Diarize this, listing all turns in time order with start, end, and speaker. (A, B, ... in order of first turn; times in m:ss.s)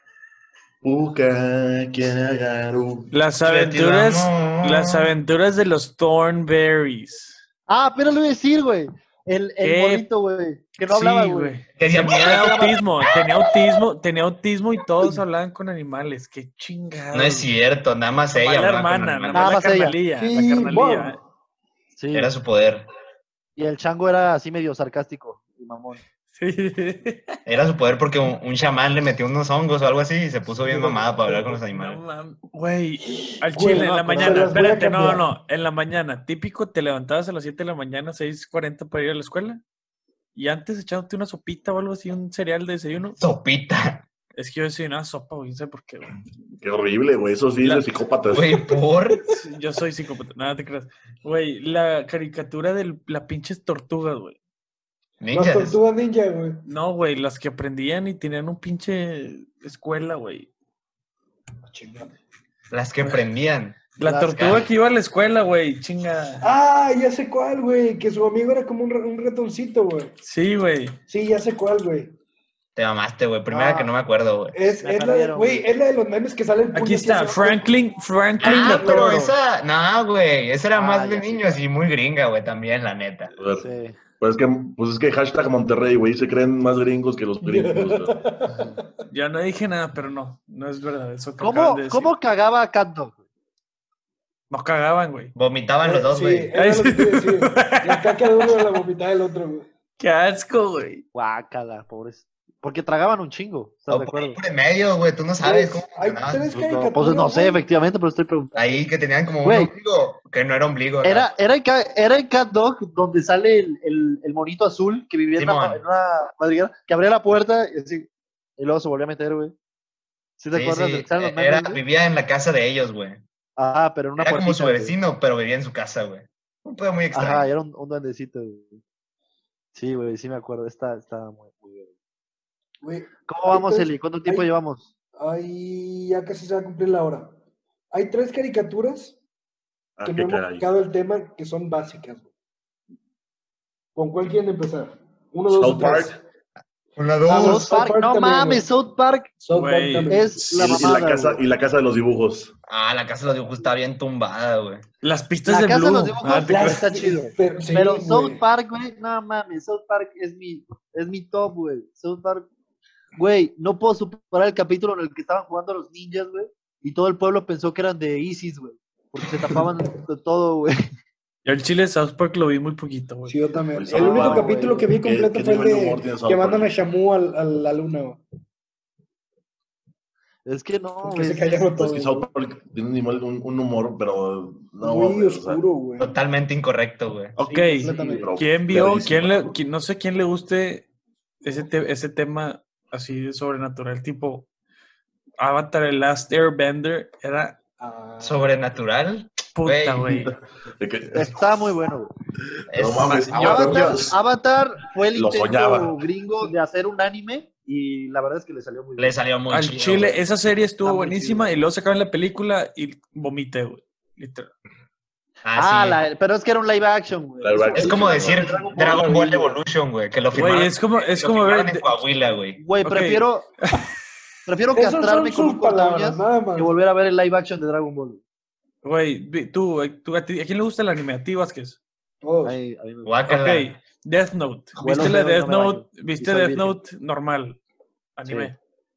0:00.8-0:03.1 A
0:03.1-0:07.4 B
0:03.4-0:05.1 C
0:07.7-0:11.6 D
0:09.6-0:10.0 B
0:10.8-0:17.5 B
0:11.8-0:12.8 C
0:12.1-0:12.7 D
0:17.1-0:19.6 C
0:18.3-0:21.2 B
0:19.3-0:19.9 D
0:20.2-0:21.2 E
0:22.0-0:22.3 D
0:22.1-0:22.9 C
0:23.6-0:26.0 D
0:26.3-0:27.4 B
0:27.4-0:32.0 C
0:30.7-0:31.4 E
0:30.7-0:39.6 B
0:33.5-0:35.2 E
0:33.8-0:34.6 D
0:40.3-0:43.2 B
0:43.2-0:44.0 C
0:44.3-0:46.2 B
0:46.6-0:48.6 A
0:48.3-0:49.3 C
0:49.3-0:54.4 B
0:55.2-0:55.8 C
0:55.3-0:56.6 E
0:56.6-1:00.5 B
1:01.6-1:02.1 E
1:02.7-1:04.6 C
1:04.0-1:06.5 B
1:04.0-1:04.6 D
1:06.4-1:10.2 E
1:10.2-1:11.0 B
1:11.1-1:12.1 E
1:12.8-1:14.6 C
1:13.5-1:13.9 E
1:14.5-1:17.7 E
1:14.8-1:15.7 D
1:16.7-1:19.3 B
1:18.4-1:23.3 C
1:18.4-1:19.2 E
1:20.7-1:21.6 D
1:23.4-1:23.7 A
1:23.5-1:24.0 D
1:24.2-1:28.2 A
1:27.4-1:29.0 E
1:29.1-1:32.1 B
1:31.4-1:33.2 D
1:34.5-1:35.3 B
1:35.3-1:36.5 C
1:35.8-1:39.7 E
1:36.6-1:38.8 B
1:40.0-1:41.0 B
1:41.1-1:44.4 D
1:43.9-1:46.6 C
1:45.4-1:47.6 E
1:46.5-1:48.7 D
1:48.5-1:51.3 C
1:49.4-1:49.7 D
1:51.0-1:58.1 D
1:55.4-1:55.8 C
1:58.6-1:59.5 D
2:00.4-2:01.8 D
2:00.5-2:03.2 C
2:03.6-2:04.9 D
2:04.2-2:07.5 C
2:07.1-2:08.8 D
2:09.7-2:11.9 D
2:12.8-2:14.5 E
2:13.3-2:14.9 D
2:15.2-2:17.3 E
2:17.9-2:19.2 E
2:20.0-2:20.7 A
2:20.1-2:22.3 E
2:23.9-2:26.2 E
2:25.5-2:26.2 A
2:27.0-2:27.7 C
2:27.2-2:28.7 E
2:27.3-2:29.3 D
2:29.4-2:30.4 E
2:29.5-2:30.9 B
2:30.1-2:31.4 D
2:30.5-2:32.5 A
2:32.7-2:34.8 C
2:35.0-2:36.8 B
2:35.4-2:42.5 D
2:36.4-2:38.4 E
2:43.2-2:50.8 D
2:51.4-2:53.4 B
2:53.2-2:58.2 E
2:53.7-2:56.7 A
2:53.9-2:54.9 D
3:00.4-3:01.6 D
3:01.0-3:02.3 E
3:01.7-3:05.6 A
3:04.8-3:06.2 E
3:06.0-3:07.4 C
3:07.4-3:10.9 B
3:07.4-3:08.3 E
3:07.8-3:09.5 A
3:11.4-3:14.5 B
3:15.4-3:17.6 B
3:17.8-3:18.6 E
3:18.2-3:20.2 C
3:19.5-3:20.3 B
3:20.1-3:21.7 A
3:21.1-3:22.1 D
3:22.5-3:24.2 A
3:22.7-3:23.7 C
3:23.3-3:29.2 D
3:23.5-3:24.0 E
3:25.1-3:26.0 A
3:29.0-3:30.2 C
3:29.5-3:34.5 B
3:30.8-3:31.5 D
3:30.8-3:31.4 E
3:35.4-3:36.0 C
3:35.6-3:39.2 D
3:37.4-3:38.6 A
3:37.7-3:42.6 C
3:38.5-3:39.6 E
3:40.3-3:42.0 B
3:42.6-3:43.5 D
3:42.8-3:43.8 B
3:44.5-3:48.2 D
3:44.7-3:46.7 E
3:48.8-3:51.8 B
3:52.2-3:52.6 E
3:52.4-3:53.1 D
3:53.0-3:53.7 C
3:53.3-3:57.6 B
3:54.8-3:56.8 D
3:58.2-3:58.6 B
3:58.2-3:58.5 D